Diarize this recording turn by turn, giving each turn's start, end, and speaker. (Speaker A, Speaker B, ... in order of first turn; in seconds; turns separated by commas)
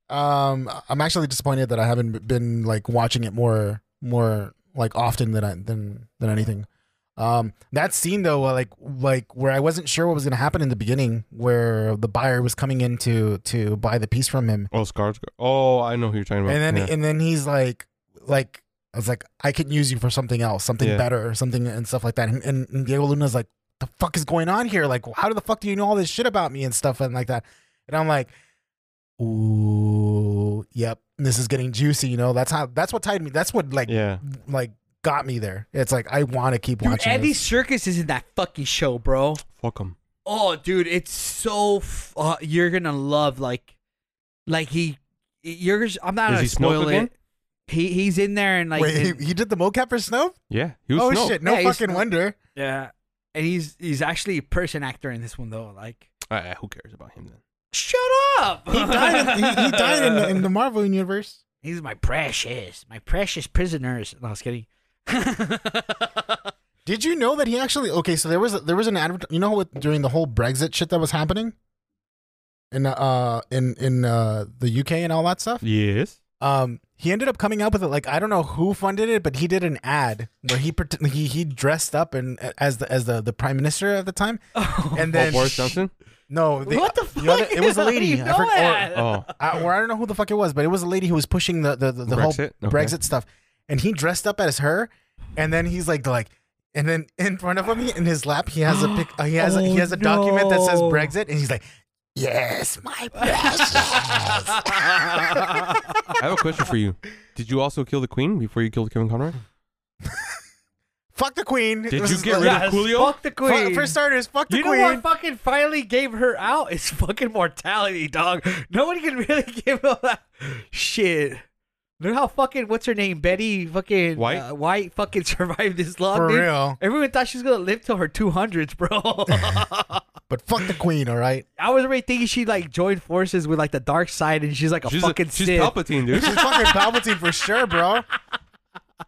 Speaker A: 0.1-14.7, Speaker B: 14.7-16.9, Speaker A: 16.5-28.3, Speaker B: 20.8-21.1, Speaker A: 29.2-37.4, Speaker B: 33.9-34.2, Speaker C: 36.8-39.4, Speaker B: 39.6-40.0, Speaker C: 40.3-43.7, Speaker C: 44.5-47.1, Speaker B: 46.3-47.1, Speaker C: 47.7-49.2, Speaker A: 48.8-50.4, Speaker B: 50.5-51.4, Speaker A: 51.0-52.4, Speaker C: 51.4-56.1, Speaker B: 56.3-57.4, Speaker C: 57.7-60.4, Speaker A: 58.7-61.4, Speaker C: 61.6-66.5, Speaker A: 66.9-71.5, Speaker A: 72.7-75.6, Speaker B: 75.6-76.2, Speaker A: 76.4-84.4, Speaker C: 84.5-85.7, Speaker A: 84.9-85.7, Speaker B: 85.1-85.9, Speaker A: 86.3-101.6, Speaker C: 86.7-89.4, Speaker B: 88.9-89.3, Speaker B: 92.1-93.0, Speaker C: 98.7-101.1, Speaker A: 102.2-106.0, Speaker C: 103.2-106.2, Speaker B: 106.2-109.4, Speaker A: 110.0-110.4, Speaker A: 111.1-112.7, Speaker B: 111.9-113.2, Speaker C: 112.4-114.0, Speaker A: 113.4-115.0, Speaker C: 114.5-121.4, Speaker C: 122.0-130.0, Speaker B: 124.2-124.5, Speaker A: 126.1-126.8, Speaker A: 130.3-131.4, Speaker C: 131.6-137.3, Speaker B: 134.8-136.4, Speaker A: 136.1-138.1